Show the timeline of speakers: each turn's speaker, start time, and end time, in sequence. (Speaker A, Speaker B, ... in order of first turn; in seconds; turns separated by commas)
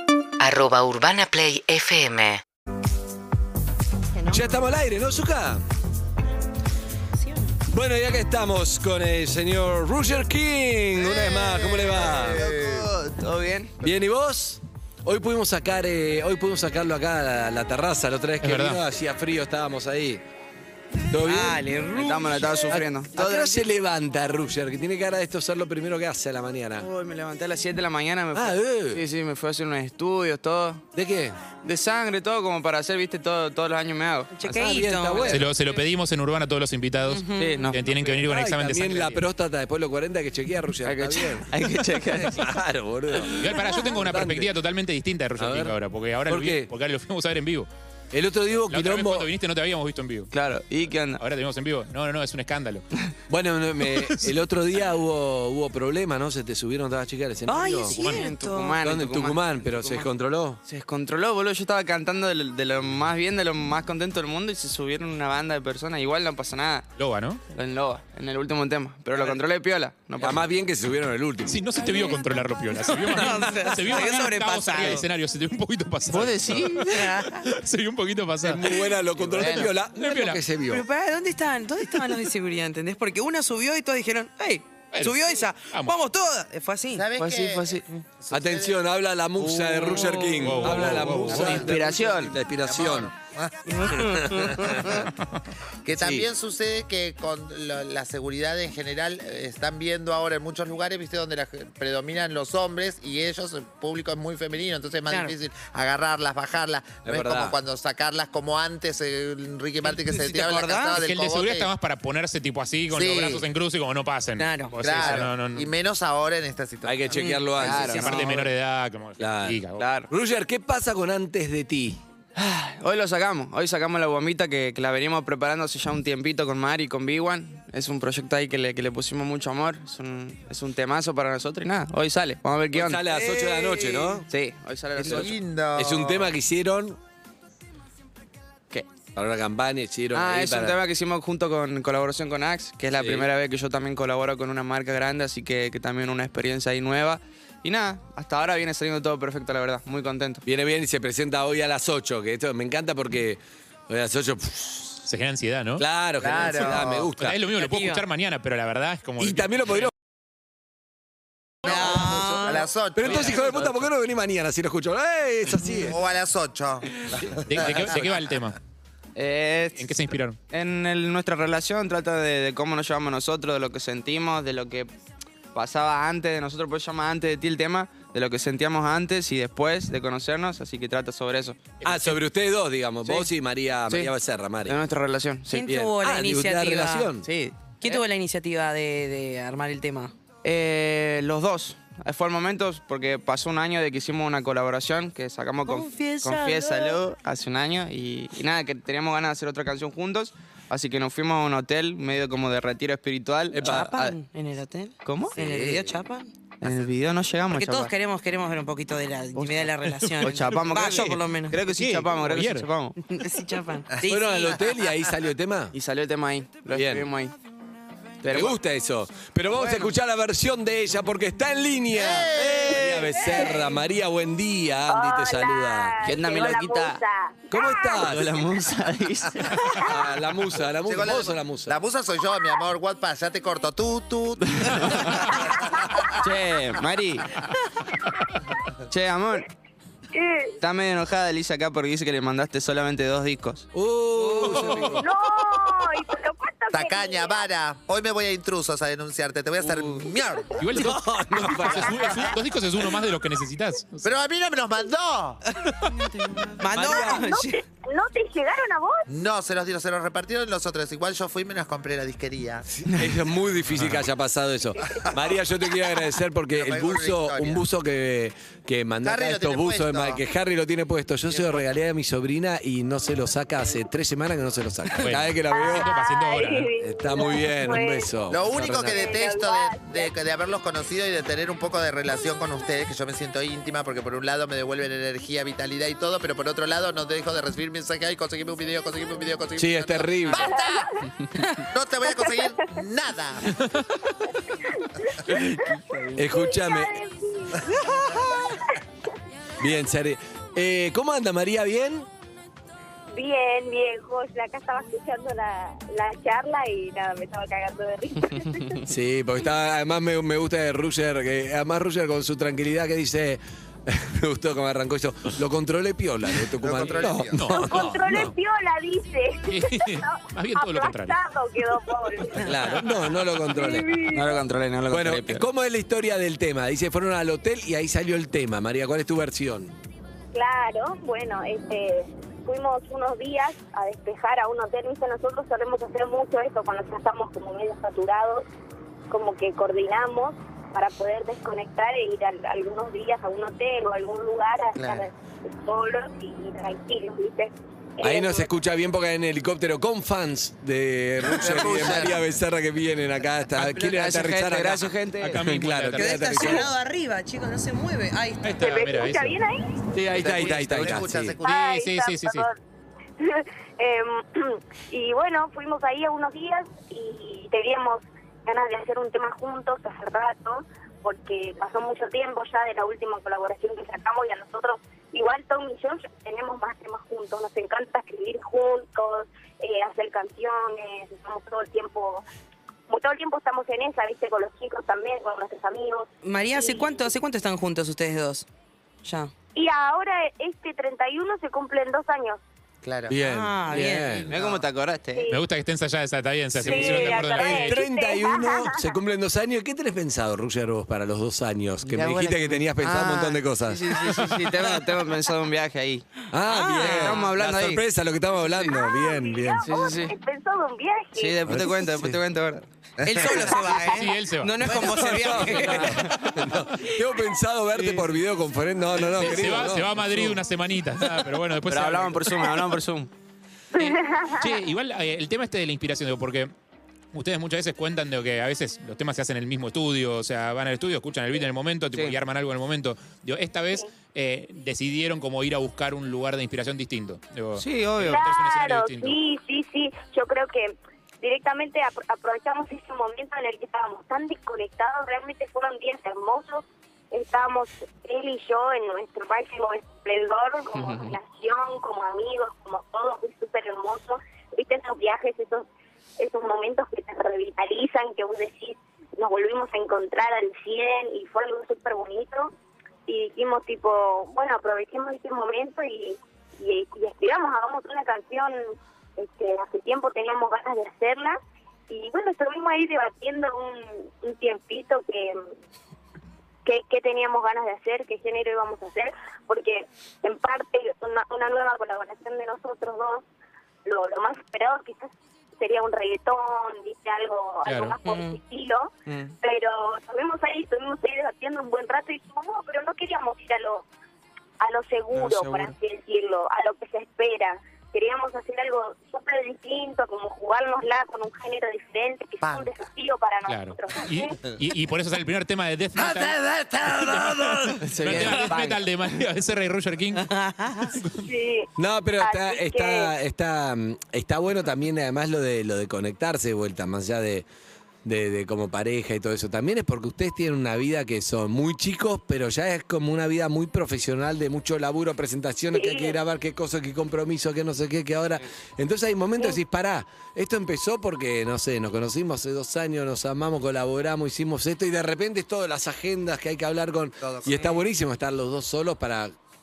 Speaker A: 0.4-2.4, Speaker B: 4.3-5.6, Speaker B: 7.7-12.4, Speaker C: 11.0-12.9, Speaker D: 12.0-13.7, Speaker B: 13.8-20.2, Speaker E: 18.4-18.8, Speaker B: 21.1-21.7, Speaker F: 21.2-22.7, Speaker D: 21.9-23.6, Speaker B: 22.6-26.9, Speaker D: 26.8-30.8, Speaker B: 28.3-29.0, Speaker B: 30.9-31.4, Speaker D: 31.6-35.4, Speaker F: 34.3-35.3, Speaker B: 34.5-35.5, Speaker E: 35.3-39.2, Speaker F: 37.1-37.7, Speaker D: 37.4-38.0, Speaker B: 37.9-41.6, Speaker D: 40.9-42.5, Speaker B: 42.1-44.5, Speaker E: 43.4-47.7, Speaker F: 43.6-44.0, Speaker B: 45.4-46.7, Speaker B: 48.1-49.3, Speaker E: 48.7-50.3, Speaker D: 50.3-51.2, Speaker E: 51.2-52.9, Speaker B: 53.3-58.0, Speaker F: 57.5-58.8, Speaker E: 57.9-58.3, Speaker D: 58.1-60.1, Speaker B: 58.8-60.6, Speaker D: 60.7-66.9, Speaker E: 67.0-67.4, Speaker D: 67.5-70.5, Speaker B: 70.2-71.7, Speaker E: 71.5-78.6, Speaker F: 73.0-75.0, Speaker D: 76.1-77.1, Speaker F: 76.8-77.5, Speaker B: 78.4-80.8, Speaker D: 79.4-79.7, Speaker E: 80.0-80.4, Speaker F: 80.7-87.1, Speaker E: 84.9-86.0, Speaker C: 87.0-88.8, Speaker D: 87.2-87.9, Speaker B: 88.3-93.1, Speaker D: 89.4-92.3, Speaker E: 90.4-91.7, Speaker C: 91.3-93.9, Speaker F: 93.7-94.8, Speaker B: 93.9-95.1, Speaker C: 95.8-111.7, Speaker B: 96.0-96.3, Speaker F: 105.1-105.3, Speaker B: 107.0-107.6, Speaker F: 109.8-111.0, Speaker E: 111.0-115.7, Speaker C: 112.9-113.5, Speaker F: 114.4-115.1, Speaker C: 114.8-117.2, Speaker B: 116.8-118.5, Speaker F: 117.1-118.3, Speaker D: 117.6-118.3, Speaker E: 117.8-119.8, Speaker B: 119.2-122.0, Speaker D: 119.8-120.1, Speaker D: 122.4-133.0, Speaker B: 132.7-134.3, Speaker F: 133.1-134.2, Speaker D: 134.3-135.3, Speaker C: 135.0-136.3, Speaker B: 135.1-137.0, Speaker B: 139.2-140.8, Speaker D: 140.1-150.4, Speaker B: 142.9-143.3, Speaker B: 150.5-155.0, Speaker E: 155.1-155.8, Speaker B: 155.8-157.4, Speaker C: 156.2-157.1, Speaker E: 157.2-159.9, Speaker F: 157.6-158.0, Speaker B: 159.2-159.9, Speaker F: 161.7-162.7, Speaker C: 161.7-163.4, Speaker B: 161.7-162.4, Speaker B: 162.9-166.0, Speaker D: 163.3-163.8, Speaker C: 165.8-168.0, Speaker E: 167.4-168.6, Speaker D: 169.2-174.9, Speaker E: 169.8-170.4, Speaker D: 175.5-181.8, Speaker E: 181.8-182.2, Speaker B: 181.8-184.8, Speaker D: 184.7-185.7, Speaker F: 185.5-187.1, Speaker B: 185.7-187.3, Speaker D: 187.2-188.0, Speaker F: 187.8-190.1, Speaker D: 190.4-204.2, Speaker F: 195.7-197.0, Speaker B: 203.5-203.9, Speaker F: 203.6-206.3, Speaker D: 205.0-205.4, Speaker C: 205.4-205.9, Speaker D: 206.6-207.9, Speaker F: 207.5-211.6, Speaker E: 209.8-210.5, Speaker D: 210.2-213.0, Speaker E: 211.9-212.7, Speaker F: 213.1-214.6, Speaker B: 214.0-215.8, Speaker D: 215.7-217.3, Speaker B: 216.7-217.1, Speaker D: 218.2-218.6, Speaker B: 218.3-226.0, Speaker D: 219.5-219.9, Speaker C: 221.9-223.2, Speaker G: 223.3-223.7, Speaker G: 224.9-228.1, Speaker D: 226.0-227.0, Speaker B: 227.5-228.4, Speaker D: 227.9-229.9, Speaker B: 229.8-231.8, Speaker C: 230.9-236.2, Speaker D: 234.5-235.3, Speaker D: 236.2-237.3, Speaker D: 238.9-239.5, Speaker G: 240.1-240.6, Speaker D: 240.6-243.7, Speaker B: 243.7-245.1, Speaker F: 244.2-244.9, Speaker G: 245.0-247.5, Speaker C: 246.7-250.6, Speaker D: 249.6-250.1, Speaker E: 250.6-254.1, Speaker B: 250.7-252.3, Speaker C: 254.0-255.4, Speaker F: 256.6-257.6, Speaker B: 256.7-257.3, Speaker G: 256.8-259.1, Speaker C: 259.1-262.7, Speaker B: 262.7-275.9, Speaker C: 264.9-265.4, Speaker C: 266.6-267.6, Speaker C: 269.0-270.2, Speaker C: 271.3-271.6, Speaker E: 275.0-276.7, Speaker G: 275.5-278.1, Speaker B: 276.8-279.1, Speaker C: 278.3-290.9, Speaker G: 278.9-280.1, Speaker B: 289.6-290.5, Speaker G: 290.5-290.9, Speaker C: 291.6-293.6, Speaker G: 295.6-298.8, Speaker D: 295.6-296.1, Speaker B: 296.1-297.0, Speaker B: 299.6-302.1, Speaker G: 303.1-308.8, Speaker B: 308.9-318.3, Speaker C: 316.6-317.5, Speaker E: 317.3-318.3, Speaker G: 317.5-322.6, Speaker E: 319.5-321.2, Speaker B: 322.4-323.9, Speaker G: 323.5-324.4, Speaker D: 324.1-325.4, Speaker B: 324.9-329.8, Speaker G: 330.3-338.5, Speaker G: 339.1-348.5, Speaker C: 344.8-345.1, Speaker B: 348.0-356.7, Speaker C: 351.2-352.2, Speaker D: 353.6-355.5, Speaker E: 355.2-356.3, Speaker F: 355.9-358.6, Speaker E: 358.4-359.4, Speaker G: 358.6-359.9, Speaker B: 359.9-361.4, Speaker D: 360.0-361.0, Speaker C: 360.1-361.7, Speaker G: 361.4-362.6, Speaker E: 361.5-362.5, Speaker G: 363.2-382.2, Speaker G: 382.9-387.1, Speaker F: 386.2-388.5, Speaker F: 389.0-389.3, Speaker G: 389.6-392.4, Speaker C: 392.8-393.1, Speaker B: 393.1-394.3, Speaker F: 393.2-394.3, Speaker D: 394.3-395.3, Speaker C: 394.3-394.6, Speaker G: 395.1-395.4, Speaker E: 395.3-397.8, Speaker G: 396.6-398.9, Speaker D: 396.6-397.2, Speaker B: 397.3-404.8, Speaker D: 401.9-406.1, Speaker B: 406.3-409.7, Speaker F: 406.5-407.2, Speaker D: 406.8-407.8, Speaker G: 408.7-411.4, Speaker D: 409.6-410.2, Speaker D: 411.2-412.6, Speaker B: 411.5-412.2, Speaker F: 413.0-416.1, Speaker C: 413.0-413.5, Speaker E: 413.7-414.6, Speaker B: 414.6-420.2, Speaker D: 415.4-416.4, Speaker D: 417.8-418.1, Speaker E: 419.1-422.6, Speaker D: 421.7-423.1, Speaker G: 423.8-424.6, Speaker E: 423.8-426.5, Speaker E: 427.1-439.2, Speaker D: 437.6-438.2, Speaker G: 438.0-455.7, Speaker D: 450.8-451.2, Speaker G: 456.2-462.5, Speaker G: 463.1-475.4, Speaker G: 476.6-483.2, Speaker G: 483.9-493.9, Speaker E: 487.6-488.0, Speaker F: 488.1-488.4, Speaker D: 489.1-489.4, Speaker G: 494.6-504.4, Speaker D: 495.1-495.8, Speaker C: 502.4-502.7, Speaker E: 503.5-506.4, Speaker C: 506.0-508.5, Speaker E: 507.0-510.3, Speaker D: 507.9-509.2, Speaker F: 510.2-511.0, Speaker E: 511.0-511.3, Speaker G: 511.2-511.7, Speaker B: 511.8-517.5, Speaker G: 512.2-513.1, Speaker B: 518.0-539.3, Speaker G: 525.7-526.2, Speaker C: 537.2-537.8